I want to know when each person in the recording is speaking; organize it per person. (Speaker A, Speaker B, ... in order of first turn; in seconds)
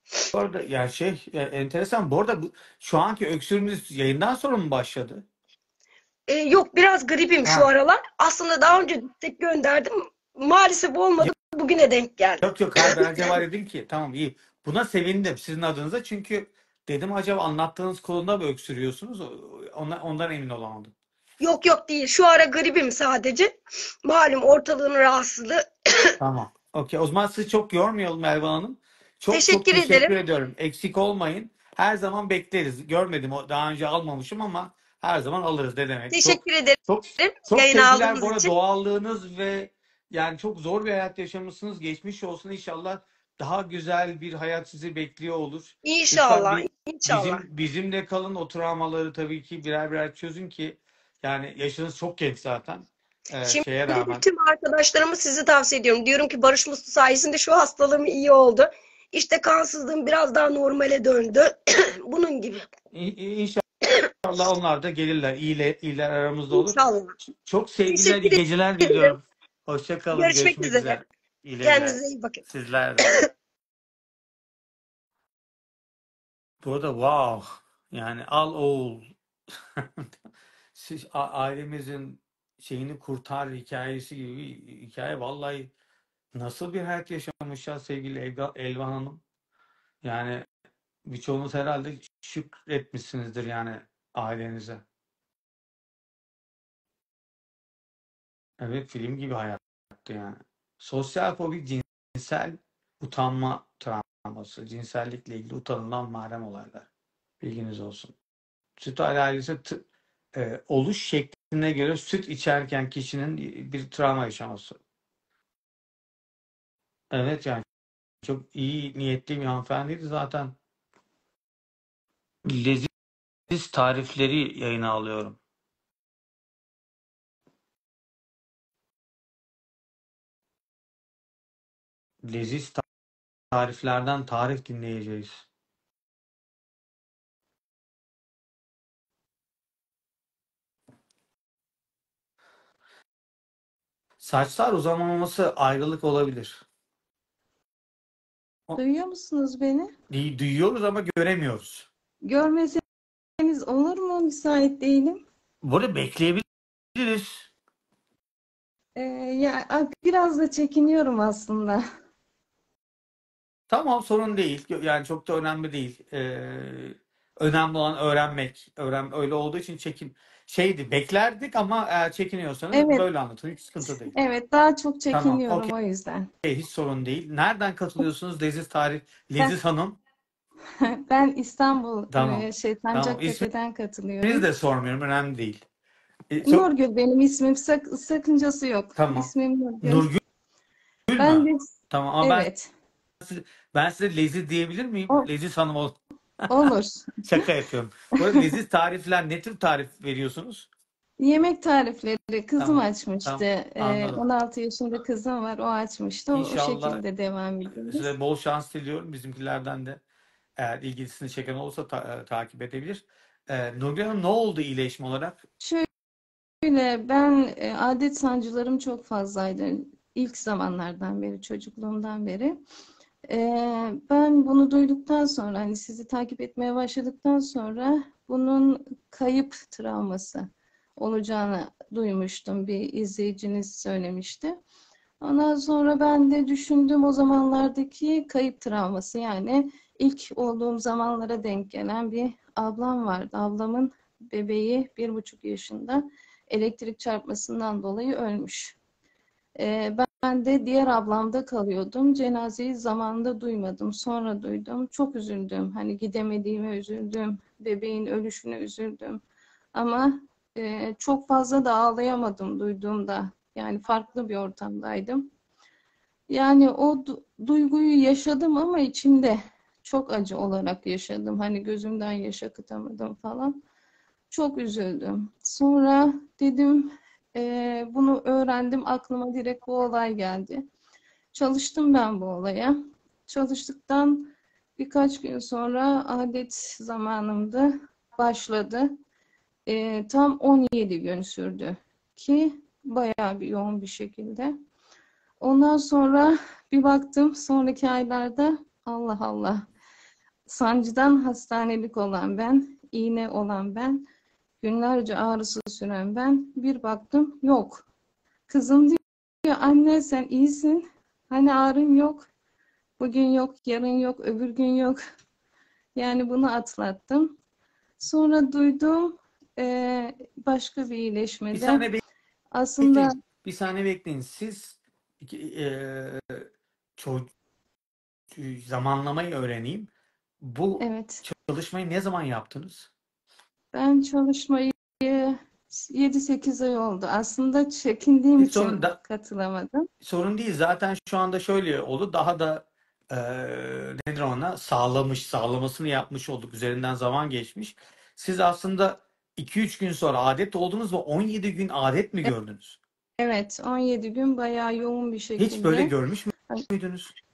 Speaker A: 0.3-5.2, 12.4-20.9, 26.2-54.2, 62.9-63.6, 64.2-73.1, 76.6-79.1, 79.8-80.1, 80.8-85.7, 86.3-89.2, 90.0-90.5, 91.1-94.8, 98.6-106.9, 107.4-108.1, 108.8-109.8, 110.3-114.8, 117.1-117.7, 118.2-120.6, 122.5-122.9, 123.5-125.4, 132.2-132.8, 133.5-135.5, 144.2-146.6, 150.1-151.9, 155.6-157.5, 163.7-174.2, 175.1-175.7, 176.4-180.0, 182.1-183.5, 184.2-185.6, 186.3-186.7, 189.0-189.3, 189.8-190.2, 191.1-192.5, 193.2-196.7, 197.2-200.7, 202.6-204.2, 206.3-207.0, 207.7-210.0, 210.6-215.4, 321.5-322.0, 322.8-326.5, 327.0-327.3, 328.4-329.9, 330.4-332.9, 338.4-339.0, 340.0-352.8, 355.4-357.1
Speaker B: 6.3-13.3, 21.4-26.1, 29.3-30.1, 36.1-38.5, 45.8-47.4, 53.5-62.7, 66.5-67.2, 67.9-69.1, 70.1-71.0, 71.6-72.4
Speaker C: 148.8-149.9, 152.2-152.8, 153.4-155.2, 159.0-161.8, 172.7-173.1, 173.9-176.3, 180.8-184.4, 186.4-190.1, 191.2-192.7, 196.5-197.4, 201.2-208.1, 215.6-215.9, 216.6-222.6, 223.3-234.6, 235.2-248.8, 249.6-259.2, 259.7-265.3, 266.3-273.6, 274.3-280.7, 281.3-289.0, 289.7-294.5, 295.4-299.7, 300.5-304.0, 304.6-307.9, 308.5-312.3, 313.0-315.0, 316.0-317.4, 318.0-321.9, 322.5-323.1, 330.8-331.2, 333.7-339.9, 353.2-355.9